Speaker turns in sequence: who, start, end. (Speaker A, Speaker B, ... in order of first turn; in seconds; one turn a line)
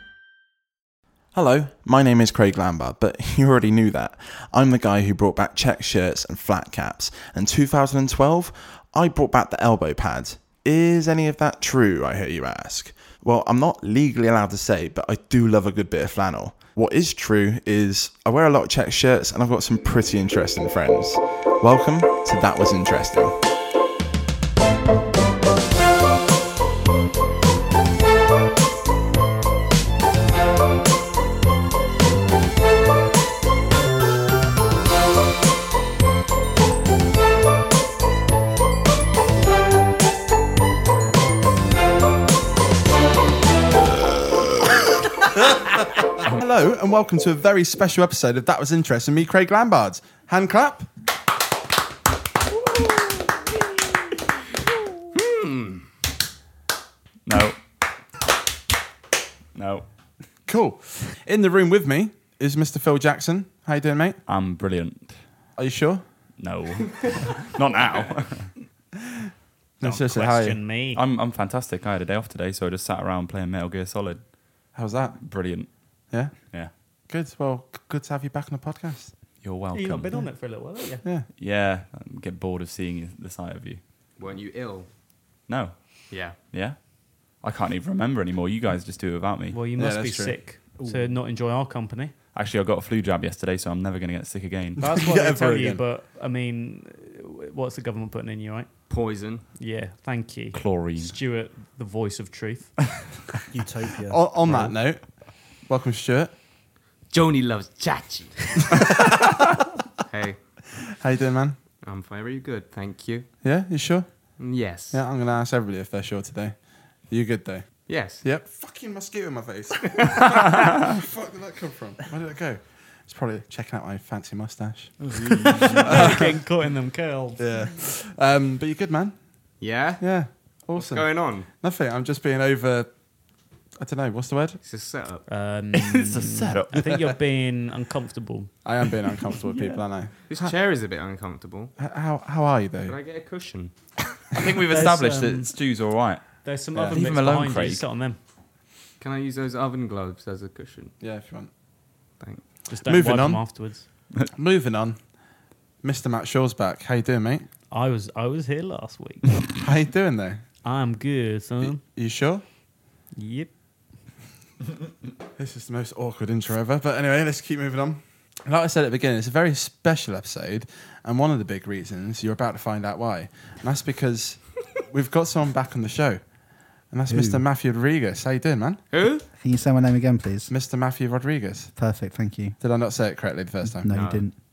Speaker A: 1.3-23.4
Speaker A: 46.3-50.9
Speaker B: 55.1-55.9
Speaker C: 57.3-57.6
Speaker C: 59.5-59.9
Speaker A: 60.5-64.2
Speaker C: 64.3-65.2
Speaker A: 65.5-66.0
Speaker C: 66.4-68.5
Speaker A: 69.8-70.6
Speaker D: 69.9-71.0
Speaker C: 70.9-74.3
Speaker A: 74.7-75.2
Speaker C: 75.2-75.7
Speaker A: 76.1-76.5
Speaker C: 76.4-76.7
Speaker A: 77.1-79.1
Speaker C: 79.4-80.3
Speaker D: 79.7-81.0
Speaker A: 81.0-81.3
Speaker C: 81.3-83.8
Speaker B: 84.2-84.9
Speaker C: 85.5-89.6
Speaker B: 86.1-86.4
Speaker D: 89.5-92.1
Speaker A: 89.7-90.4
Speaker E: 90.8-91.1
Speaker C: 92.3-94.8
Speaker A: 94.8-95.8
Speaker D: 94.8-98.7
Speaker B: 98.9-99.5
Speaker D: 99.6-102.8
Speaker C: 100.5-101.2
Speaker E: 103.5-104.8
Speaker A: 104.1-106.3
Speaker B: 107.1-108.7
Speaker B: 110.1-110.4
Speaker A: 111.0-111.6
Speaker B: 111.8-113.3
Speaker A: 113.4-125.1
Speaker B: 114.4-115.0
Speaker B: 117.9-118.2
Speaker B: 125.2-125.8
Speaker D: 125.2-127.4
Speaker A: 125.9-126.3
Speaker A: 127.4-129.2
Speaker B: 129.6-130.1
Speaker A: 130.0-132.9
Speaker B: 130.7-131.5
Speaker A: 133.8-134.6
Speaker B: 134.6-135.2
Speaker D: 135.3-138.6
Speaker C: 135.8-136.9
Speaker A: 138.6-140.6
Speaker D: 139.5-139.8
Speaker B: 140.3-141.7
Speaker A: 141.8-143.0
Speaker B: 142.8-143.7
Speaker C: 144.3-147.8
Speaker D: 144.7-145.5
Speaker D: 146.4-148.2
Speaker A: 146.8-147.0
Speaker B: 149.0-150.9
Speaker A: 151.0-151.5
Speaker D: 152.7-153.9
Speaker A: 152.8-153.5
Speaker A: 154.3-155.0
Speaker A: 155.8-157.5
Speaker D: 157.7-159.3
Speaker A: 159.6-160.4
Speaker D: 160.6-161.8
Speaker A: 161.6-162.4
Speaker D: 163.2-163.5
Speaker A: 165.4-178.8
Speaker E: 177.1-177.4
Speaker B: 178.9-179.2
Speaker E: 179.3-180.5
Speaker A: 180.5-181.7
Speaker E: 181.8-182.6
Speaker A: 182.6-184.2
Speaker E: 183.6-184.4
Speaker B: 183.9-184.2